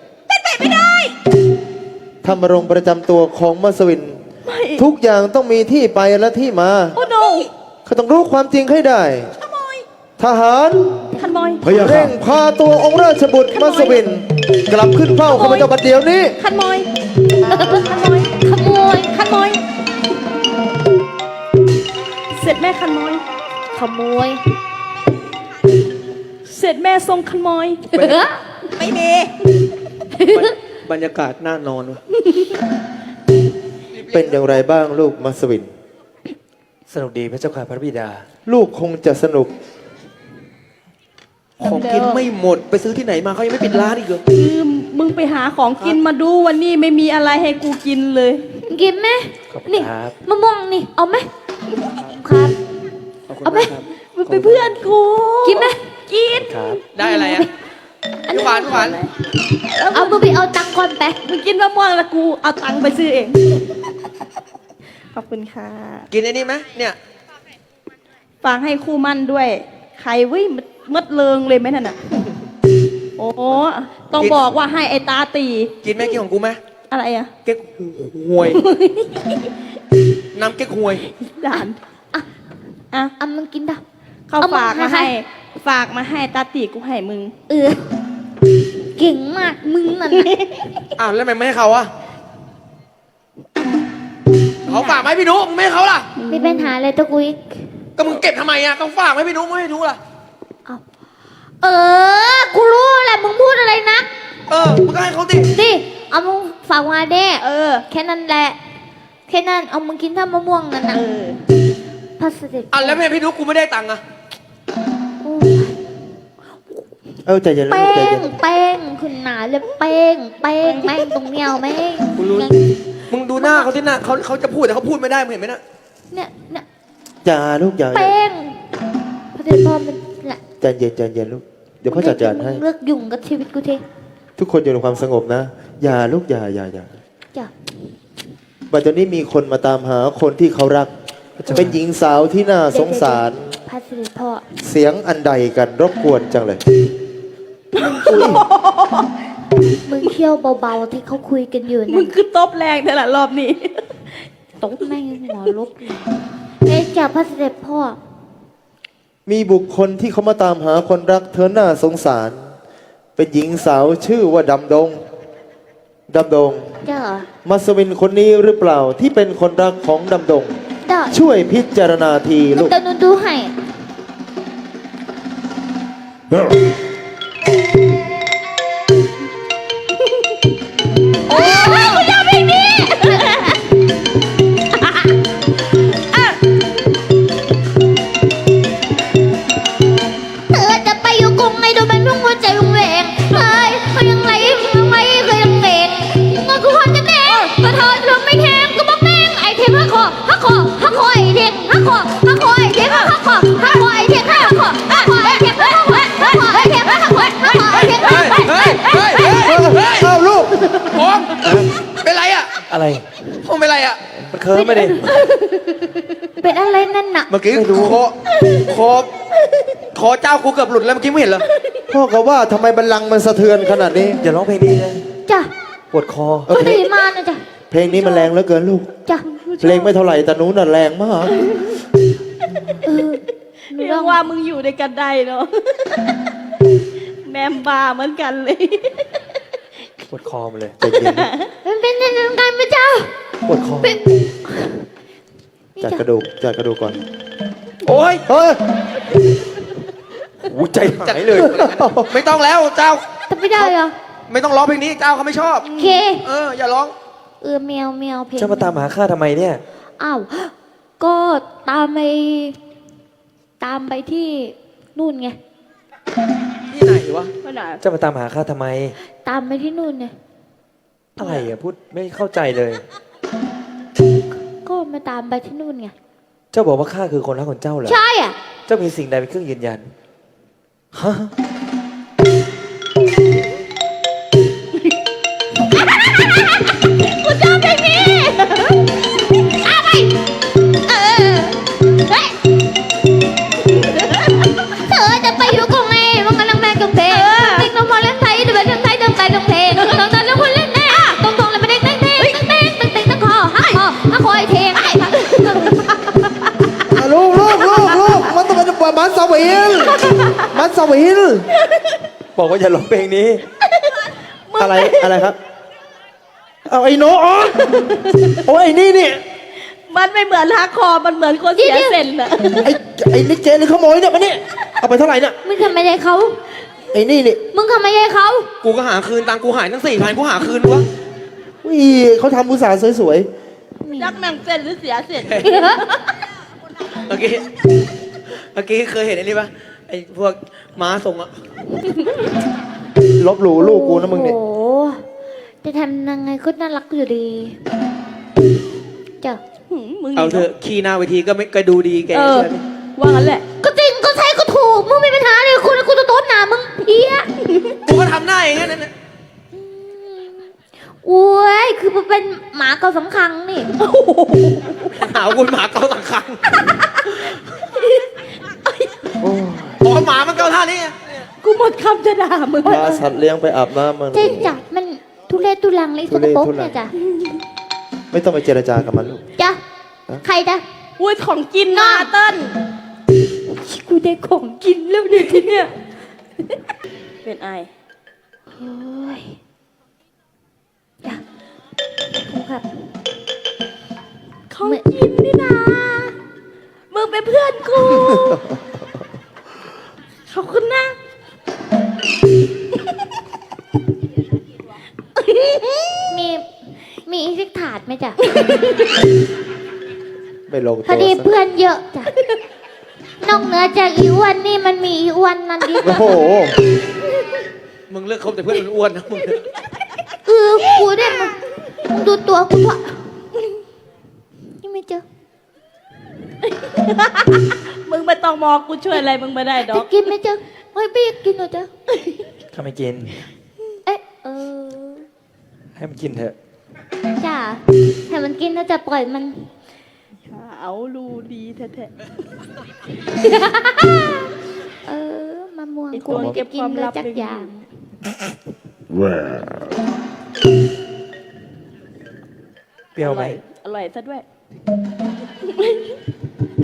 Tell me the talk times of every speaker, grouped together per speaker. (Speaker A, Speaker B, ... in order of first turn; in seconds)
Speaker A: 0.5-1.1, 4.5-4.8, 7.0-7.5, 11.2-11.6, 13.5-14.0, 15.3-15.7, 16.4-16.9, 17.5-18.3, 19.1-19.6, 22.3-23.2, 26.4-27.9, 28.7-29.3, 41.6-42.3, 44.3-48.6, 53.9-56.8, 58.3-60.2, 61.2-63.4, 65.1-66.1, 68.4-72.0, 73.2-75.7, 76.9-77.3, 78.5-79.4, 81.2-81.8, 84.3-87.3, 94.6-95.1, 96.2-96.7, 107.4-107.9, 110.9-111.4, 120.6-121.0, 147.7-149.1, 151.9-154.1, 181.4-183.5, 229.3-229.9, 233.7-236.0, 237.2-239.2, 241.1-241.5, 267.4-267.8, 271.2-271.5, 287.3-288.7, 297.1-297.7, 305.2-305.8, 310.0-310.4, 313.6-315.3, 319.9-322.8, 334.0-336.0, 349.7-350.5, 352.1-353.4, 363.8-365.0, 367.7-368.9, 371.4-373.0, 381.0-382.6, 387.2-387.7, 394.5-396.2, 396.9-398.4, 400.3-401.0, 405.2-406.1, 408.3-408.9, 426.4-429.9, 431.9-432.2, 440.2-441.9, 445.9-447.6, 453.0-454.2, 455.4-455.9
Speaker B: 2.2-4.2, 4.8-7.0, 7.8-9.3, 10.2-11.1, 11.6-16.4, 34.1-35.7, 38.5-39.5, 117.2-118.4, 127.2-128.2, 130.6-132.6, 134.4-136.9, 138.7-140.9, 141.5-143.6, 144.6-146.6, 148.1-148.4, 159.3-162.5, 163.2-165.0, 166.1-166.8, 167.4-170.6, 171.1-172.7, 209.4-210.7, 221.9-224.2, 226.5-226.8, 227.7-228.9, 229.6-231.4, 240.8-241.3, 245.8-247.0, 248.3-248.6, 251.3-252.1, 306.9-311.5, 314.6-315.4, 316.7-319.2, 322.6-325.4, 326.9-327.4, 331.6-333.3, 343.2-344.4, 369.2-369.8, 372.7-374.6, 376.1-376.8, 378.1-379.2, 410.5-411.3, 415.8-416.6
Speaker C: 11.7-12.1, 36.9-38.2, 49.5-50.2, 54.3-54.6, 56.4-56.8, 141.4-141.8, 211.4-211.7, 212.7-213.1, 214.3-215.0, 217.5-218.0, 224.2-225.1, 225.9-226.5, 240.1-240.8, 243.5-244.0, 250.4-251.6, 258.4-259.6, 267.8-269.0, 271.2-272.8, 276.5-278.0, 278.7-279.9, 280.9-281.3, 312.4-313.5, 432.5-433.2, 435.8-436.4, 453.0-453.4
Speaker D: 17.4-19.1, 23.7-24.4, 27.9-28.4, 30.1-30.5, 48.7-51.3, 52.0-52.5, 53.4-53.8, 55.5-55.8, 57.0-57.5, 58.3-58.9, 59.9-61.2, 83.2-83.8, 84.4-85.1, 87.5-87.9, 89.0-90.7, 96.3-97.4, 101.6-104.1, 105.5-108.6, 109.3-111.0, 112.2-113.0, 115.2-115.8, 117.7-122.8, 123.4-123.7, 126.1-126.6, 127.9-128.6, 129.3-130.4, 131.9-133.8, 142.7-144.5, 149.8-152.1, 154.6-158.0, 166.8-167.3, 170.8-171.2, 172.6-173.6, 181.3-183.6, 190.5-209.7, 214.6-215.2, 216.4-217.3, 226.5-227.5, 232.8-234.2, 241.6-243.1, 243.8-244.8, 245.8-246.0, 253.3-253.9, 255.7-256.2, 257.4-258.9, 260.0-262.6, 263.6-265.4, 269.2-270.1, 274.6-275.9, 277.9-278.4, 287.2-288.1, 289.4-290.2, 290.8-292.4, 294.6-305.9, 307.7-308.1, 321.6-322.0, 325.4-326.4, 327.5-328.5, 333.8-334.2, 335.4-335.9, 343.6-345.1, 345.6-347.6, 353.6-357.3, 359.5-363.7, 374.1-376.9, 380.2-380.6, 381.7-382.1, 383.5-385.7, 388.6-389.4, 392.2-392.6, 406.1-408.2, 410.9-412.1, 413.2-416.2, 420.2-423.1, 424.6-425.0, 429.6-431.7, 433.9-435.1, 437.1-439.5, 443.2-444.2, 444.9-447.5
Speaker E: 27.9-28.2, 30.3-32.0, 33.9-34.4, 41.6-44.2, 53.3-53.8, 56.9-57.5, 58.3-59.0, 66.1-67.0, 74.1-74.4, 75.8-76.6, 77.4-78.6, 80.3-81.0, 91.0-91.9, 94.7-96.1, 98.0-100.0, 104.5-105.5, 112.7-114.0, 122.2-122.5, 123.1-125.6, 207.7-210.1, 210.9-212.6, 213.4-214.2, 217.3-219.1, 219.9-221.5, 247.9-248.2, 251.0-253.7, 254.3-256.9, 266.7-267.3, 328.6-330.9, 335.2-335.5, 337.1-337.5, 338.3-341.3, 350.2-352.6, 357.8-358.9, 364.9-367.1, 369.8-371.2, 417.9-419.4